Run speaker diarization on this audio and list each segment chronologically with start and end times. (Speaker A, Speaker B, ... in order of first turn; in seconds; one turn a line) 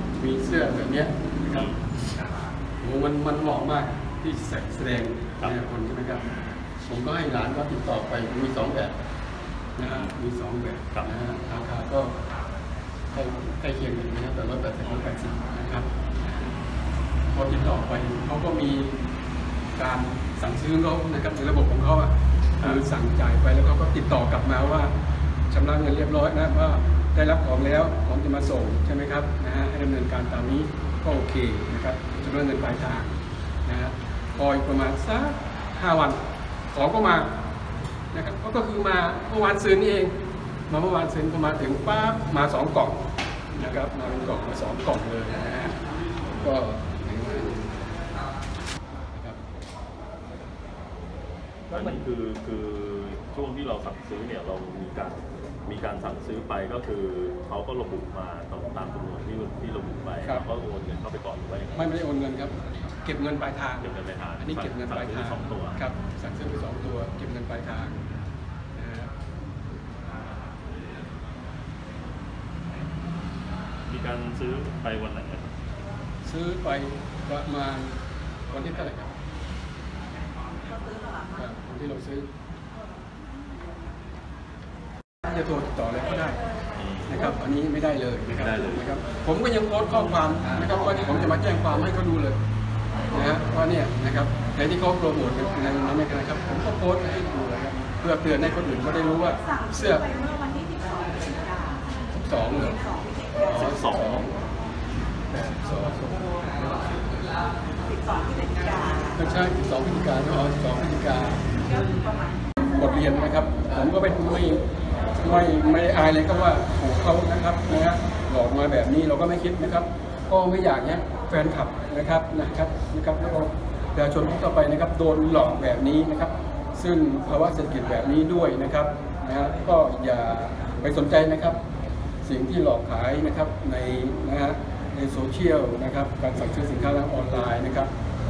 Speaker A: 0.2-1.7
Speaker A: 2.8-6.3
Speaker A: 6.9-8.9
Speaker A: 9.8-12.2
Speaker B: 9.9-10.1
Speaker A: 13.1-16.5
Speaker A: 17.3-19.0
Speaker A: 19.8-24.9
Speaker A: 25.5-37.4
Speaker A: 38.1-40.1
Speaker A: 40.7-45.8
Speaker A: 46.4-47.8
Speaker A: 49.1-49.4
Speaker B: 51.7-61.9
Speaker A: 61.8-68.1
Speaker B: 63.8-65.8
Speaker A: 68.8-69.1
Speaker B: 73.9-75.5
Speaker A: 76.2-78.0
Speaker A: 78.5-79.2
Speaker A: 81.3-82.3
Speaker A: 85.2-86.5
Speaker B: 86.8-87.3
Speaker A: 87.1-92.4
Speaker B: 88.3-88.9
Speaker A: 93.1-100.2
Speaker C: 100.2-101.8
Speaker A: 102.1-102.8
Speaker A: 103.4-104.4
Speaker B: 103.5-104.3
Speaker A: 105.3-106.9
Speaker C: 108.1-109.0
Speaker A: 109.1-112.1
Speaker A: 112.6-114.6
Speaker A: 115.2-131.6
Speaker A: 132.2-137.9